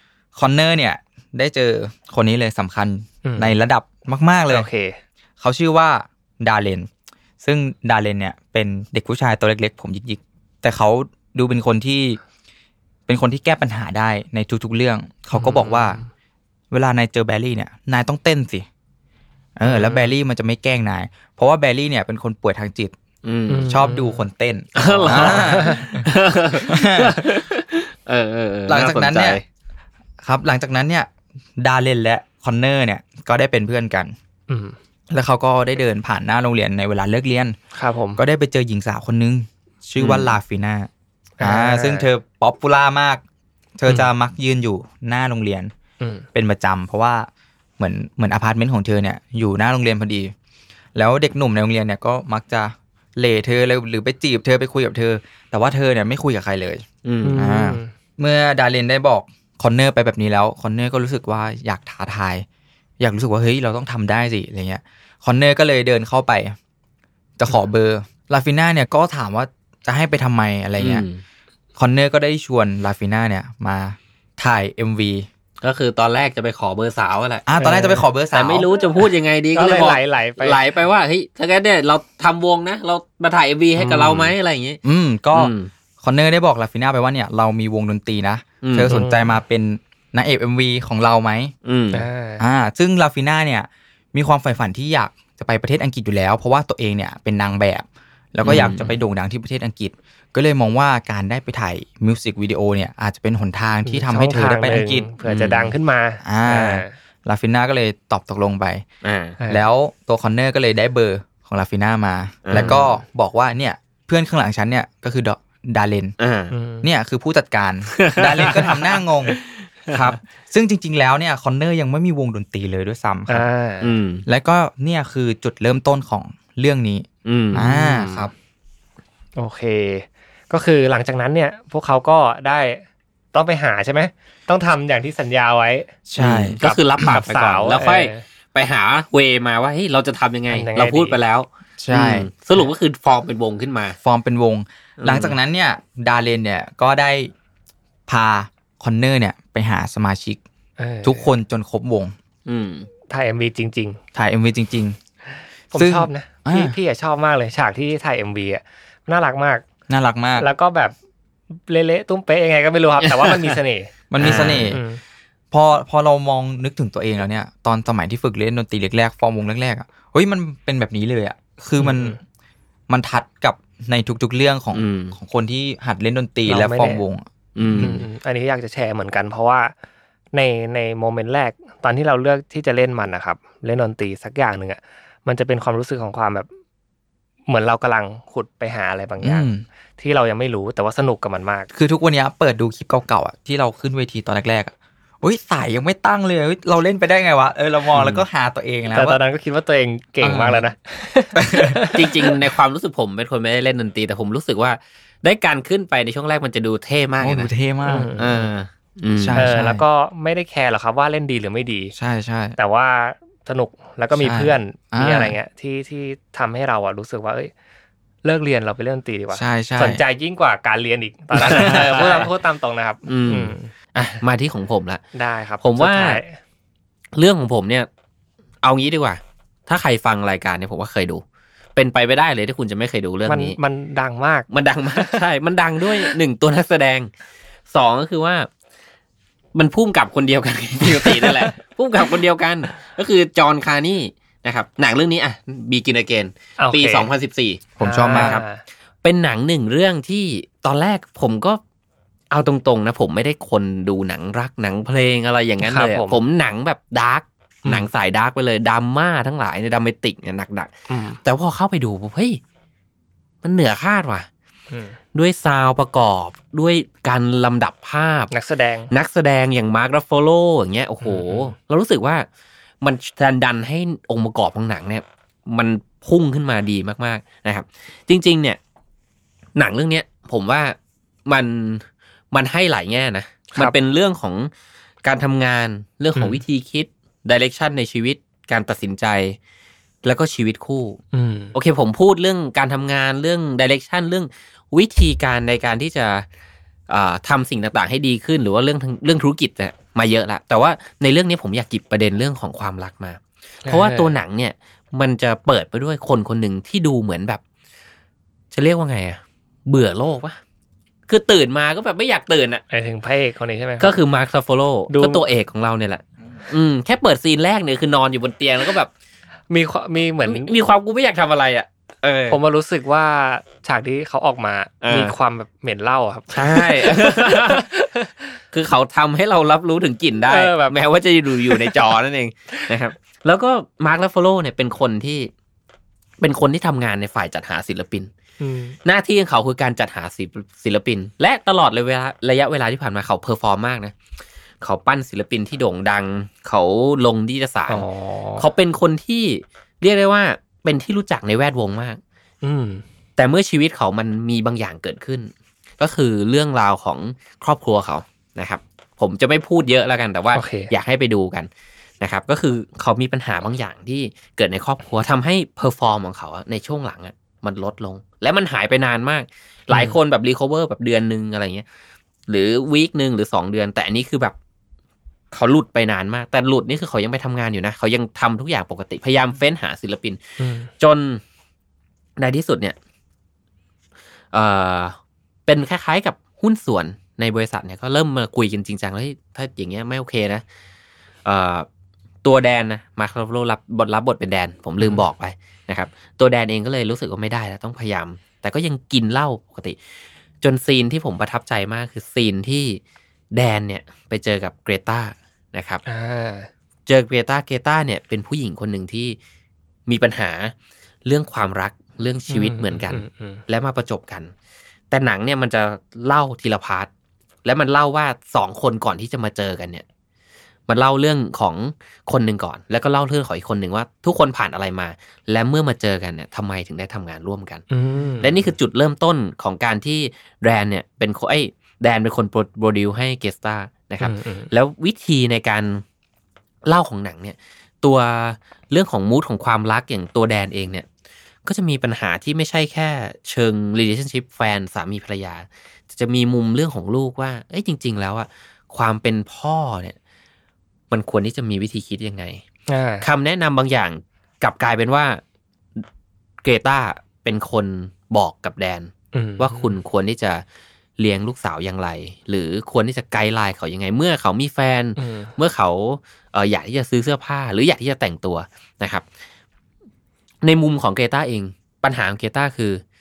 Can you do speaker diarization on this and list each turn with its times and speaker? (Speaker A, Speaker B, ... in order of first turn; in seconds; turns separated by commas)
Speaker A: 0.3-4.7, Speaker B: 3.2-3.5, Speaker B: 4.5-5.0, Speaker A: 5.4-6.9, Speaker A: 7.4-12.2, Speaker A: 13.1-16.0, Speaker B: 15.3-16.1, Speaker A: 16.7-18.6, Speaker A: 19.6-22.9, Speaker B: 19.7-20.1, Speaker C: 23.2-23.7, Speaker B: 23.5-24.2, Speaker A: 23.7-26.1, Speaker C: 24.7-29.4, Speaker B: 24.8-26.0, Speaker A: 26.7-27.2, Speaker A: 28.7-29.4, Speaker A: 30.2-34.1, Speaker B: 34.5-34.8, Speaker A: 35.1-37.5, Speaker B: 37.7-38.2, Speaker A: 38.2-40.9, Speaker C: 40.0-40.3, Speaker B: 41.4-42.1, Speaker A: 41.4-43.2, Speaker A: 43.8-45.7, Speaker B: 46.0-46.2, Speaker A: 46.3-47.3, Speaker A: 47.8-50.3, Speaker A: 50.9-56.8, Speaker C: 57.0-57.4, Speaker B: 57.2-57.9, Speaker A: 57.3-62.4, Speaker A: 63.0-66.6, Speaker A: 67.4-71.0, Speaker C: 70.8-71.2, Speaker A: 71.8-75.3, Speaker C: 75.6-77.4, Speaker A: 77.5-78.7, Speaker B: 77.5-78.0, Speaker C: 78.3-84.8, Speaker B: 79.5-80.6, Speaker B: 83.8-84.3, Speaker A: 84.8-91.5, Speaker C: 85.3-85.7, Speaker C: 88.6-88.9, Speaker B: 88.9-89.4, Speaker C: 91.6-92.1, Speaker B: 91.9-92.4, Speaker A: 92.4-105.1, Speaker C: 98.4-98.9, Speaker B: 103.8-106.9, Speaker C: 105.2-105.7, Speaker A: 106.2-108.8, Speaker C: 109.0-109.4, Speaker A: 109.5-116.1, Speaker C: 112.4-112.8, Speaker C: 116.2-116.5, Speaker B: 116.5-116.9, Speaker A: 116.8-123.5, Speaker C: 117.9-118.7, Speaker B: 123.3-123.9, Speaker C: 123.8-124.2, Speaker A: 124.2-128.3, Speaker C: 127.2-128.3, Speaker B: 129.4-135.9, Speaker A: 136.1-137.2, Speaker C: 136.2-144.0, Speaker B: 136.6-138.2, Speaker B: 140.5-141.2, Speaker A: 141.8-142.3, Speaker A: 144.0-147.3, Speaker C: 145.0-145.3, Speaker A: 148.1-150.4, Speaker B: 150.8-151.3, Speaker A: 151.0-152.1, Speaker C: 152.4-152.9, Speaker B: 153.1-154.0, Speaker A: 154.1-155.0, Speaker B: 155.3-159.6, Speaker A: 155.7-156.8, Speaker A: 159.9-160.5, Speaker B: 160.4-160.9, Speaker B: 161.7-165.0, Speaker C: 163.0-163.4, Speaker A: 164.1-164.8, Speaker C: 164.2-164.8, Speaker A: 165.5-172.2, Speaker B: 171.8-172.2, Speaker A: 172.9-178.0, Speaker C: 174.7-175.2, Speaker B: 176.5-177.0, Speaker C: 177.6-178.0, Speaker B: 177.8-179.7, Speaker B: 180.3-186.5, Speaker B: 187.5-189.5, Speaker A: 189.2-189.6, Speaker B: 190.0-191.7, Speaker A: 191.7-199.2, Speaker C: 197.9-198.2, Speaker B: 198.9-202.3, Speaker A: 200.2-200.7, Speaker A: 201.3-201.8, Speaker C: 201.9-207.5, Speaker A: 207.2-208.1, Speaker B: 207.8-208.3, Speaker C: 208.2-209.5, Speaker A: 209.2-209.8, Speaker B: 209.3-211.9, Speaker A: 211.9-212.6, Speaker B: 212.6-217.5, Speaker A: 214.1-215.3, Speaker B: 218.2-223.7, Speaker A: 219.3-220.0, Speaker A: 221.3-222.2, Speaker C: 221.4-222.3, Speaker C: 223.1-225.0, Speaker B: 225.1-226.4, Speaker C: 225.6-226.2, Speaker C: 227.2-227.9, Speaker C: 228.6-231.2, Speaker C: 231.7-233.6, Speaker B: 233.3-235.2, Speaker C: 234.5-237.1, Speaker B: 235.8-236.1, Speaker C: 237.7-238.5, Speaker C: 239.5-248.4, Speaker B: 246.6-247.1, Speaker A: 247.8-248.4, Speaker B: 247.8-248.6, Speaker C: 249.0-251.6, Speaker C: 252.3-260.7, Speaker B: 255.6-256.2, Speaker B: 260.9-261.2, Speaker C: 261.2-262.4, Speaker C: 263.4-264.3, Speaker B: 264.7-265.0, Speaker C: 265.1-268.3, Speaker B: 268.3-268.9, Speaker C: 268.9-272.2, Speaker B: 271.0-271.5, Speaker C: 272.8-278.6, Speaker C: 279.6-280.8, Speaker C: 281.3-284.5, Speaker C: 285.0-289.4, Speaker C: 290.0-291.0, Speaker B: 291.1-291.5, Speaker C: 291.5-296.2, Speaker C: 296.9-307.4, Speaker B: 303.6-304.2, Speaker C: 308.5-310.4, Speaker C: 311.1-312.6, Speaker B: 312.7-313.9, Speaker C: 313.8-318.9, Speaker B: 314.9-315.2, Speaker B: 319.5-320.5, Speaker C: 320.2-322.4, Speaker B: 322.3-328.4, Speaker C: 324.8-325.1, Speaker C: 326.3-327.6, Speaker C: 328.5-335.3, Speaker B: 330.3-330.8, Speaker B: 331.4-331.7, Speaker C: 336.2-338.1, Speaker B: 338.4-338.8, Speaker C: 338.8-343.9, Speaker C: 344.6-347.9, Speaker B: 347.7-348.5, Speaker C: 348.4-352.0, Speaker B: 352.4-352.8, Speaker C: 353.2-361.5, Speaker B: 360.3-360.7, Speaker C: 362.0-371.6, Speaker B: 369.7-369.9, Speaker C: 372.3-374.4, Speaker C: 375.3-380.2, Speaker B: 380.4-380.7, Speaker C: 380.8-381.2, Speaker C: 382.2-382.8, Speaker C: 384.3-390.4, Speaker C: 391.2-391.7, Speaker C: 392.2-399.8, Speaker C: 400.4-402.8, Speaker C: 403.3-405.8, Speaker B: 405.8-406.5, Speaker C: 406.9-409.2, Speaker C: 409.9-410.5, Speaker C: 411.0-414.3, Speaker B: 412.3-413.4, Speaker C: 414.9-416.9, Speaker C: 417.4-419.8, Speaker C: 420.7-427.6, Speaker B: 427.7-428.3, Speaker C: 428.2-435.8, Speaker B: 434.0-434.5, Speaker C: 436.7-440.9, Speaker C: 441.4-449.9, Speaker C: 450.9-452.4, Speaker B: 452.7-453.1, Speaker C: 453.0-455.2, Speaker C: 456.4-460.4, Speaker B: 459.1-459.7, Speaker C: 461.0-469.0, Speaker B: 465.0-465.3, Speaker C: 470.4-472.8